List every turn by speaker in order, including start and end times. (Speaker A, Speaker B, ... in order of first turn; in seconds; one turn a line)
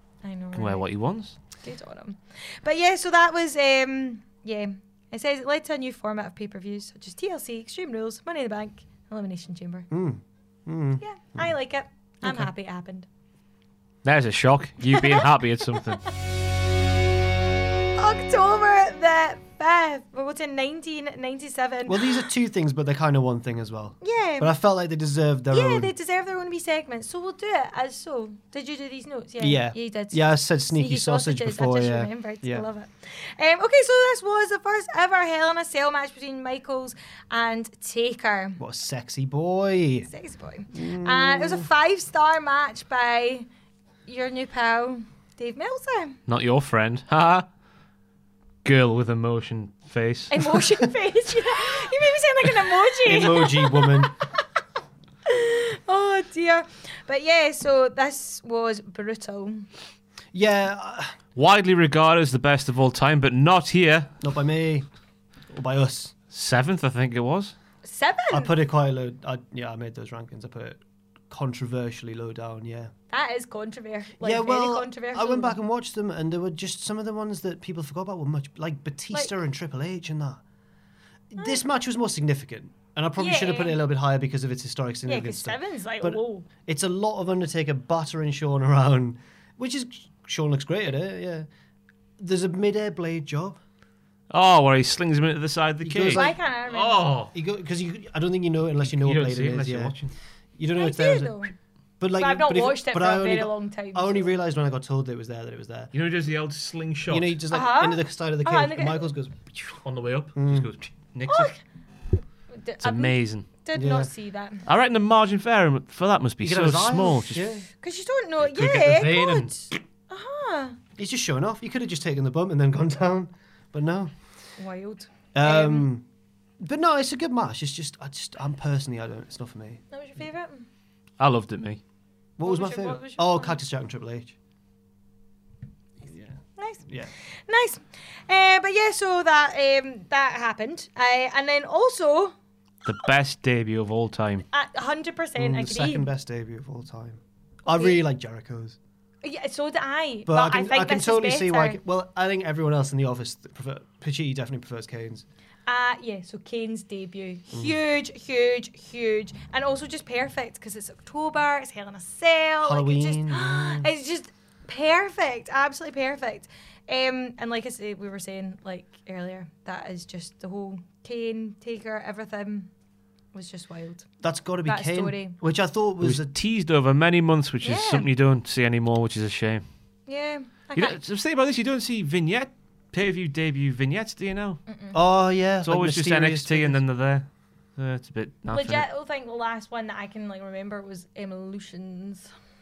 Speaker A: 0.2-0.9
Speaker B: 0.5-1.4
Speaker A: 1.5-9.9
Speaker C: 9.9-11.5
Speaker A: 11.0-13.1
Speaker C: 12.2-12.5
Speaker B: 14.0-16.0
Speaker A: 14.9-15.3
Speaker A: 18.0-22.2
Speaker C: 21.9-25.9
Speaker A: 24.0-24.5
Speaker A: 25.5-38.6
Speaker C: 29.4-32.6
Speaker C: 38.6-40.1
Speaker A: 40.1-43.5
Speaker C: 40.7-41.7
Speaker A: 44.1-46.2
Speaker B: 46.3-47.5
Speaker B: 48.6-50.3
Speaker A: 50.3-54.1
Speaker C: 53.0-54.1
Speaker A: 55.3-59.6
Speaker C: 60.3-61.1
Speaker B: 61.4-64.1
Speaker C: 64.2-64.9
Speaker C: 65.5-66.1
Speaker B: 66.3-67.5
Speaker A: 67.8-68.5
Speaker C: 68.3-72.9
Speaker A: 73.1-75.5
Speaker C: 74.2-80.4
Speaker C: 81.3-91.5
Speaker A: 83.2-83.8
Speaker A: 85.0-86.5
Speaker C: 92.2-93.6
Speaker B: 94.3-97.3
Speaker C: 95.8-96.4
Speaker A: 96.1-97.1
Speaker C: 97.3-99.9
Speaker B: 98.8-100.1
Speaker C: 100.6-101.4
Speaker A: 100.8-101.5
Speaker C: 102.0-105.9
Speaker A: 102.2-104.3
Speaker B: 105.9-107.4
Speaker C: 107.1-109.4
Speaker A: 107.5-109.1
Speaker B: 109.5-111.5
Speaker C: 110.4-110.7
Speaker A: 111.3-111.6
Speaker A: 112.5-114.6
Speaker B: 112.8-113.5
Speaker C: 113.7-114.1
Speaker B: 114.7-117.5
Speaker C: 116.4-117.7
Speaker A: 117.8-120.8
Speaker B: 118.5-119.4
Speaker C: 118.6-119.4
Speaker C: 121.0-124.1
Speaker A: 124.6-125.9
Speaker C: 125.3-126.0
Speaker C: 126.6-129.8
Speaker A: 129.9-130.7
Speaker B: 131.2-131.8
Speaker C: 132.4-134.3
Speaker A: 132.4-133.6
Speaker A: 136.6-136.8
Speaker A: 137.5-142.3
Speaker B: 142.9-144.4
Speaker A: 144.5-146.1
Speaker C: 145.4-148.8
Speaker A: 147.7-148.0
Speaker A: 149.2-151.8
Speaker C: 150.2-155.2
Speaker A: 155.7-172.7
Speaker C: 162.6-163.9
Speaker A: 173.3-174.1
Speaker C: 174.2-176.3
Speaker A: 174.7-175.4
Speaker B: 176.0-179.6
Speaker A: 177.6-178.1
Speaker A: 180.1-181.0
Speaker B: 180.8-184.6
Speaker A: 184.7-185.0
Speaker C: 184.9-186.8
Speaker B: 185.6-187.2
Speaker B: 187.8-188.8
Speaker A: 188.5-192.3